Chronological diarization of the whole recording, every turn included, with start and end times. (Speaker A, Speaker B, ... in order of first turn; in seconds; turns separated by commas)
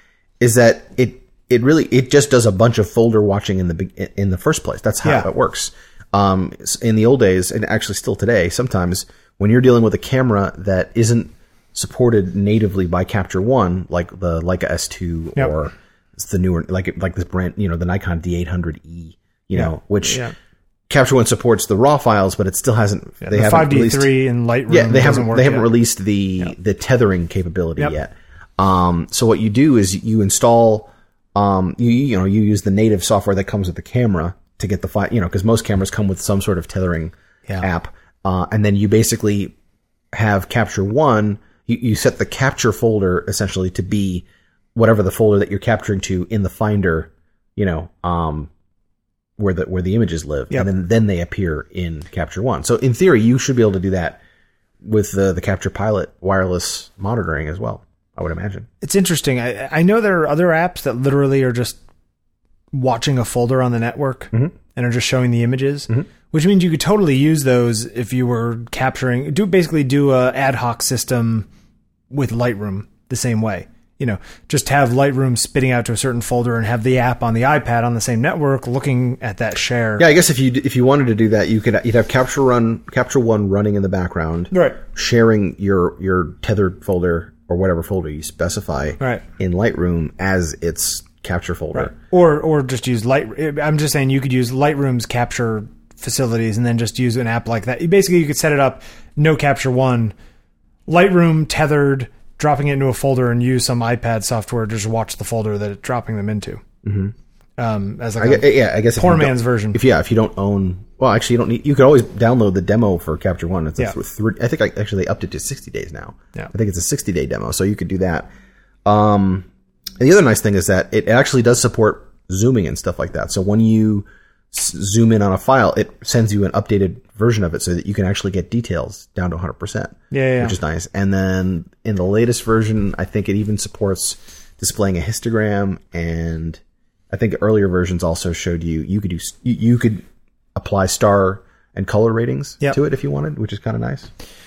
Speaker A: 0.4-20.2, Speaker B: 19.6-20.3, Speaker A: 20.9-24.1, Speaker B: 23.2-25.7, Speaker A: 24.7-39.5, Speaker A: 40.1-48.5, Speaker A: 49.4-54.2, Speaker A: 54.8-58.7, Speaker B: 58.8-61.8, Speaker B: 62.7-71.5, Speaker B: 72.1-80.1, Speaker A: 80.0-91.9, Speaker B: 84.5-84.8, Speaker B: 91.7-100.2, Speaker B: 100.9-106.6, Speaker A: 106.8-107.1, Speaker B: 107.6-109.8, Speaker A: 108.2-118.3, Speaker A: 118.9-119.5, Speaker A: 120.0-140.0, Speaker B: 130.1-130.6, Speaker A: 140.6-144.1